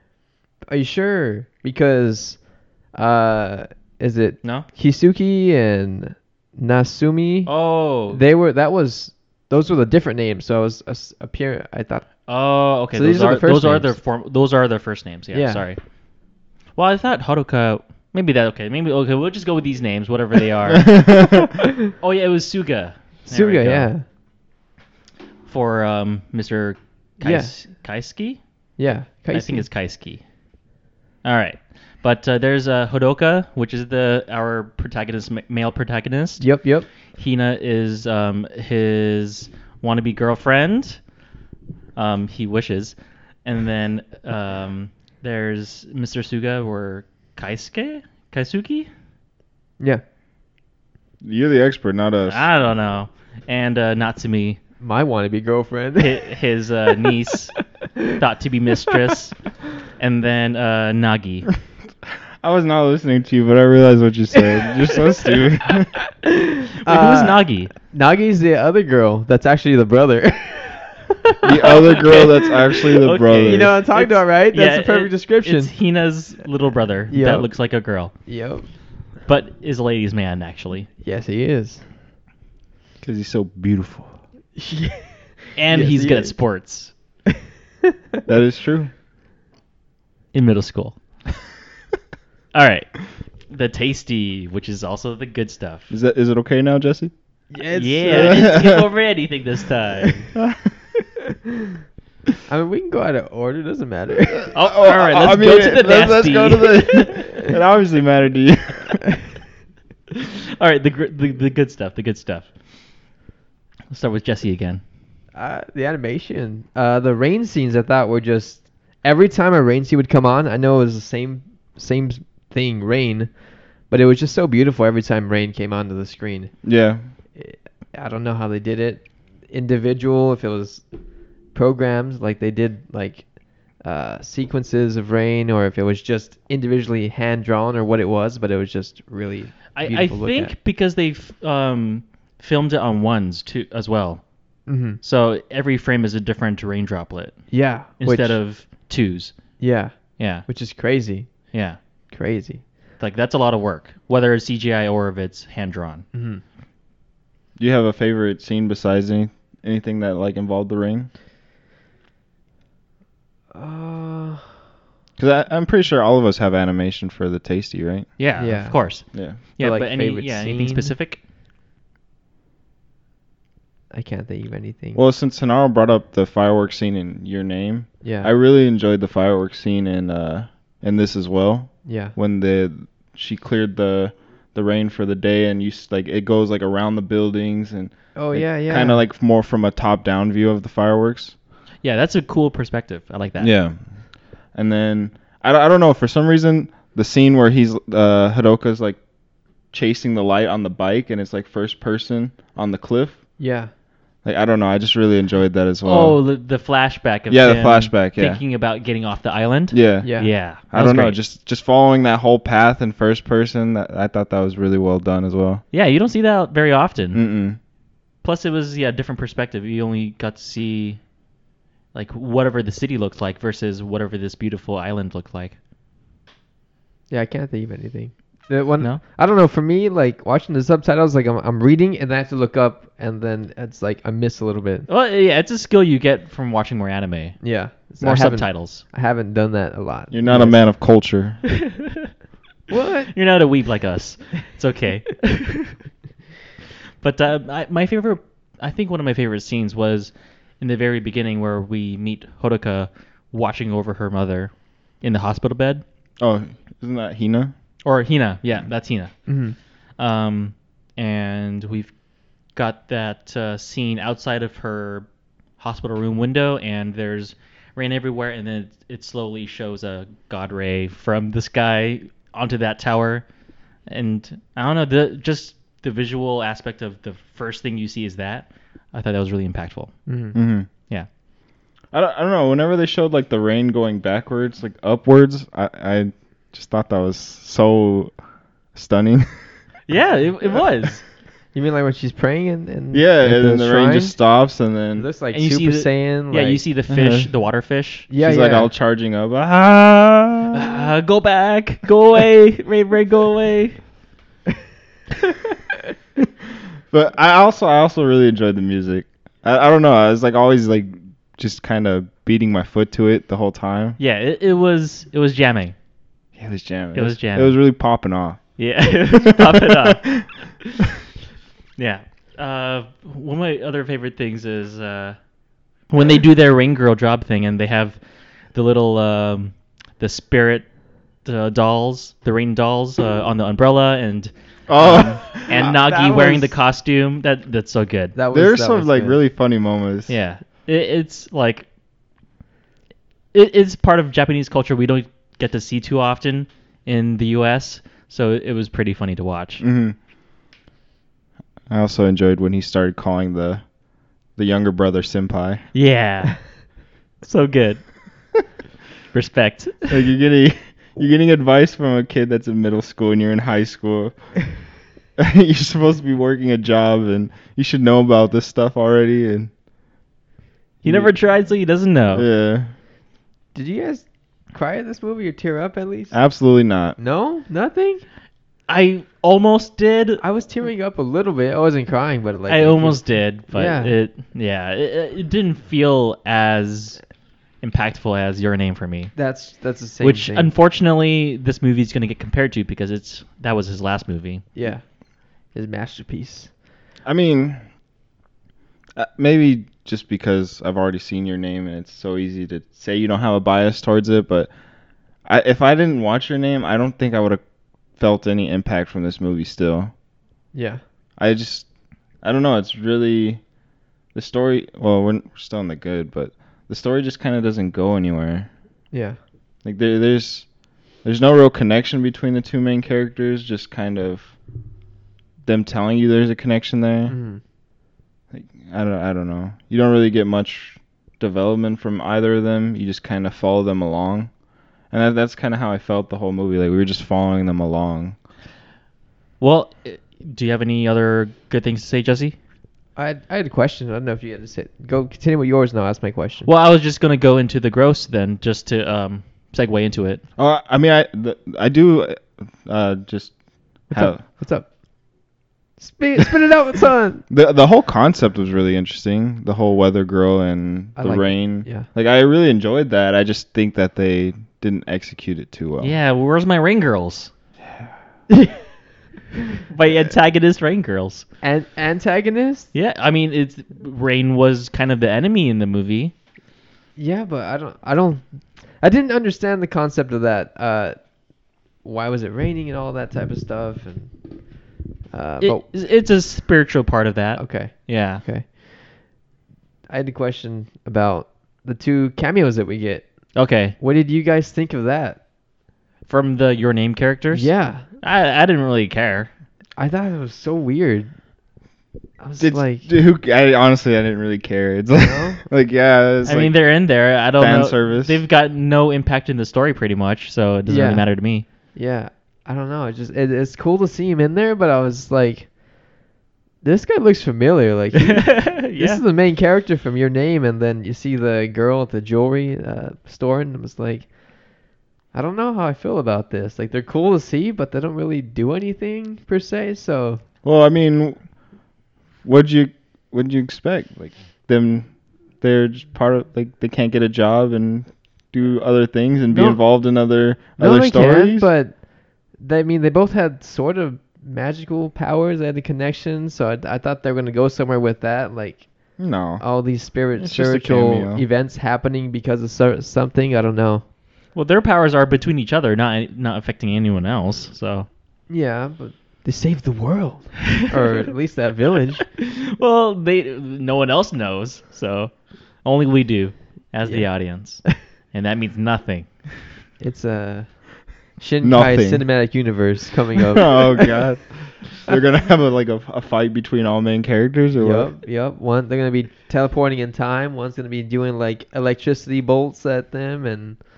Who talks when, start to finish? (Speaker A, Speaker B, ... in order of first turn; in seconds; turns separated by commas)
Speaker A: 0.7-14.0, Speaker B: 7.5-8.2, Speaker B: 12.3-15.8, Speaker A: 15.3-15.7, Speaker B: 16.8-21.0, Speaker C: 20.7-21.5, Speaker B: 22.0-23.9, Speaker A: 23.3-24.0, Speaker B: 25.5-28.4, Speaker A: 27.2-27.6, Speaker A: 28.8-29.7, Speaker B: 29.3-30.2, Speaker B: 31.2-36.5, Speaker A: 36.4-36.9, Speaker B: 37.1-41.0, Speaker B: 42.0-48.9, Speaker C: 51.2-52.5, Speaker B: 52.2-54.6, Speaker A: 54.8-56.3, Speaker B: 56.0-61.5, Speaker C: 62.4-66.0, Speaker A: 66.2-72.8, Speaker B: 66.8-67.7, Speaker C: 71.4-73.7, Speaker B: 71.5-78.1, Speaker A: 73.4-75.7, Speaker A: 77.1-77.5, Speaker A: 78.2-78.7, Speaker B: 79.2-80.9, Speaker A: 81.0-81.8, Speaker C: 83.0-84.1, Speaker A: 84.6-86.4, Speaker B: 85.6-86.9, Speaker C: 88.3-88.9, Speaker B: 90.3-91.0, Speaker B: 92.5-95.9, Speaker C: 95.9-97.1, Speaker A: 97.5-98.8, Speaker B: 97.7-100.2, Speaker C: 98.1-98.9, Speaker A: 102.5-104.5, Speaker C: 104.5-109.0, Speaker B: 104.5-107.4, Speaker B: 110.6-112.5, Speaker B: 113.9-114.8, Speaker A: 115.3-123.3, Speaker A: 123.9-126.6, Speaker C: 126.6-127.0, Speaker A: 127.3-130.8, Speaker A: 131.5-140.5, Speaker B: 139.7-144.2, Speaker A: 144.7-145.0, Speaker B: 145.0-149.4, Speaker A: 147.5-148.4, Speaker A: 149.6-151.5, Speaker B: 150.2-150.5, Speaker B: 151.5-151.8, Speaker A: 152.1-152.6, Speaker B: 153.0-156.1, Speaker A: 156.1-156.4, Speaker C: 157.6-161.1, Speaker A: 163.5-164.5, Speaker C: 165.2-168.1, Speaker B: 168.2-171.2, Speaker A: 168.4-170.9, Speaker C: 169.1-169.4, Speaker A: 173.9-175.0, Speaker C: 174.9-191.3, Speaker A: 178.0-178.3, Speaker A: 181.8-182.2, Speaker A: 188.2-189.0, Speaker B: 191.8-193.5, Speaker C: 193.4-199.0, Speaker C: 199.7-203.2, Speaker A: 203.4-203.7, Speaker C: 204.2-206.2, Speaker B: 205.8-211.2, Speaker C: 207.3-208.4, Speaker C: 209.7-215.6, Speaker A: 210.0-210.3, Speaker B: 215.7-217.2, Speaker C: 217.1-217.6, Speaker B: 218.2-221.0, Speaker B: 221.9-225.6, Speaker A: 227.1-234.9, Speaker B: 234.9-237.4, Speaker A: 237.4-240.6, Speaker B: 238.0-238.8, Speaker C: 240.1-241.4, Speaker A: 242.7-243.1, Speaker B: 243.1-245.7, Speaker B: 247.0-255.8, Speaker C: 256.2-257.5, Speaker B: 257.8-259.3, Speaker A: 259.3-259.6, Speaker B: 260.0-261.9, Speaker B: 262.5-265.1, Speaker B: 265.6-273.2, Speaker B: 273.9-279.9, Speaker A: 280.1-280.4, Speaker C: 280.3-280.7, Speaker C: 281.9-288.1, Speaker C: 288.7-289.7, Speaker B: 289.9-291.0, Speaker A: 291.5-294.1, Speaker C: 292.9-295.1, Speaker A: 295.0-296.6, Speaker B: 295.3-298.1, Speaker C: 296.9-297.3, Speaker A: 298.1-298.7, Speaker C: 298.2-300.6, Speaker B: 300.5-303.8, Speaker C: 306.9-314.0, Speaker B: 314.0-315.8, Speaker C: 316.4-318.5, Speaker B: 316.9-317.6, Speaker B: 318.6-320.1, Speaker C: 319.1-320.2, Speaker B: 321.8-325.2, Speaker B: 325.9-328.0, Speaker B: 328.5-330.7, Speaker B: 331.2-338.2, Speaker C: 334.7-335.7, Speaker A: 335.4-336.5, Speaker A: 338.1-339.2, Speaker C: 338.3-340.1, Speaker B: 340.1-341.7, Speaker B: 343.3-349.6, Speaker C: 349.6-350.0, Speaker C: 351.7-353.8, Speaker C: 354.3-355.6, Speaker B: 355.7-357.9, Speaker B: 359.1-360.0, Speaker C: 359.9-364.4, Speaker C: 365.2-369.5, Speaker C: 370.8-371.1, Speaker B: 370.8-372.2, Speaker C: 372.1-372.7, Speaker A: 373.5-376.2, Speaker C: 376.1-377.0, Speaker A: 377.0-378.1, Speaker B: 378.7-380.2, Speaker A: 380.2-384.0, Speaker B: 382.5-387.0, Speaker B: 387.6-389.1, Speaker A: 389.1-390.5, Speaker B: 390.0-394.4, Speaker A: 394.6-394.9, Speaker A: 395.5-396.5, Speaker C: 397.1-397.6, Speaker C: 399.0-404.5, Speaker C: 405.2-407.4, Speaker C: 408.0-409.9, Speaker A: 410.5-410.8, Speaker C: 411.2-411.7, Speaker C: 412.2-413.4, Speaker C: 414.1-418.5, Speaker A: 418.9-419.2, Speaker C: 419.6-420.5, Speaker C: 421.0-424.4, Speaker C: 425.4-427.2, Speaker A: 427.1-427.4, Speaker C: 428.3-434.3, Speaker C: 434.9-438.2, Speaker B: 439.4-442.4, Speaker A: 443.0-446.5, Speaker B: 446.5-450.2, Speaker C: 450.4-454.2, Speaker A: 453.9-454.7, Speaker A: 455.8-457.2, Speaker C: 457.3-465.9, Speaker A: 461.0-461.9, Speaker B: 465.8-467.3, Speaker B: 469.7-471.2, Speaker A: 471.4-472.7, Speaker B: 472.7-476.1, Speaker A: 477.0-481.2, Speaker A: 481.8-484.6, Speaker A: 485.1-485.6, Speaker B: 485.4-488.2, Speaker A: 487.4-489.1, Speaker A: 489.9-495.2, Speaker B: 493.4-493.8, Speaker B: 496.1-499.3, Speaker A: 497.3-497.9, Speaker A: 499.8-501.1, Speaker A: 502.2-502.9, Speaker C: 502.4-508.2, Speaker B: 506.2-511.5, Speaker A: 510.7-515.5, Speaker A: 516.6-530.2, Speaker B: 518.0-519.0, Speaker C: 530.4-531.3, Speaker C: 532.2-541.5, Speaker A: 539.3-539.8, Speaker A: 540.6-553.8, Speaker C: 549.0-549.6, Speaker C: 550.2-551.2, Speaker B: 554.4-557.9, Speaker A: 558.3-562.1, Speaker B: 562.5-569.3, Speaker A: 566.8-567.8, Speaker A: 569.8-573.7, Speaker C: 571.4-572.1, Speaker C: 573.3-577.9, Speaker A: 577.6-583.6